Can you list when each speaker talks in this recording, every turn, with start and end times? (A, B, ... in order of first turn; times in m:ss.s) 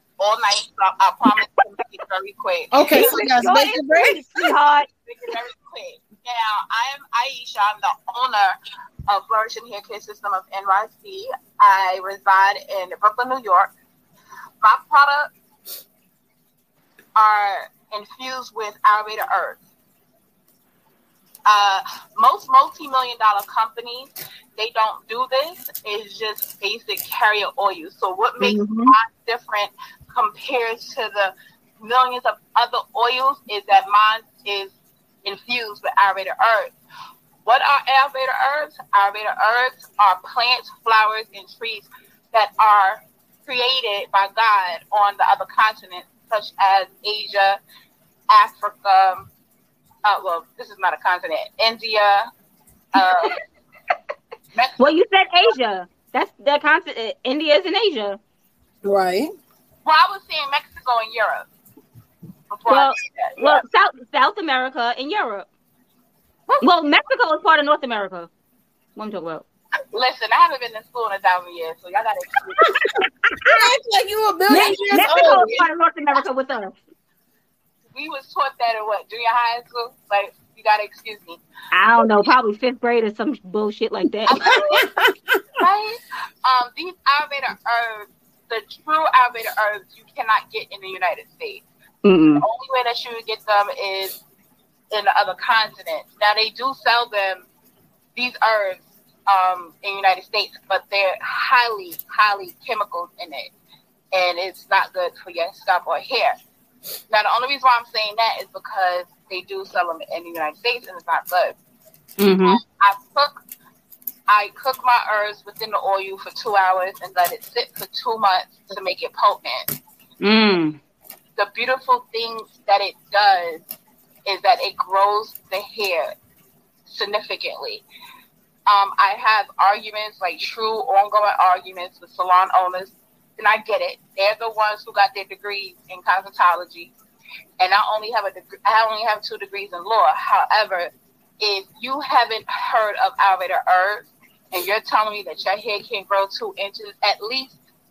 0:00.2-0:03.1 A
0:02.7-0:04.6 B
0:02.9-0:04.9 C
0:05.1-0:08.6 A
0:09.1-0:13.7 A
0:14.6-0:15.3 A
0:17.2-0:19.6 A
0:21.5-0:36.7 A
0:28.4-0:29.0 C
0:37.4-0:47.6 A
0:48.3-0:49.3 A
0:50.0-0:52.3 A
0:53.0-0:53.4 A
0:53.0-0:53.3 C
0:54.5-0:54.8 A
0:54.8-0:58.2 C
0:58.8-0:59.3 B
0:59.8-1:01.5 A
1:02.5-1:03.3 A
1:02.7-1:05.5 C
1:06.6-1:08.3 C
1:09.0-1:09.4 C
1:09.9-1:12.7 A
1:13.4-1:15.7 B
1:14.5-1:16.7 C
1:17.9-1:21.4 A
1:21.7-1:24.5 C
1:24.3-1:24.9 A
1:24.6-1:25.4 B
1:25.6-1:31.6 A
1:32.0-1:32.4 C
1:32.4-1:34.2 A
1:34.9-1:37.5 A
1:38.2-1:43.5 A
1:44.1-1:46.4 A
1:47.1-1:51.6 A
1:52.2-1:52.6 C
1:52.4-1:53.3 A
1:54.3-1:59.7 A
2:00.2-2:00.8 C
2:01.4-2:03.6 A
2:04.3-2:06.2 A
2:06.9-2:07.8 A
2:08.7-2:16.9 A
2:17.6-2:27.6 A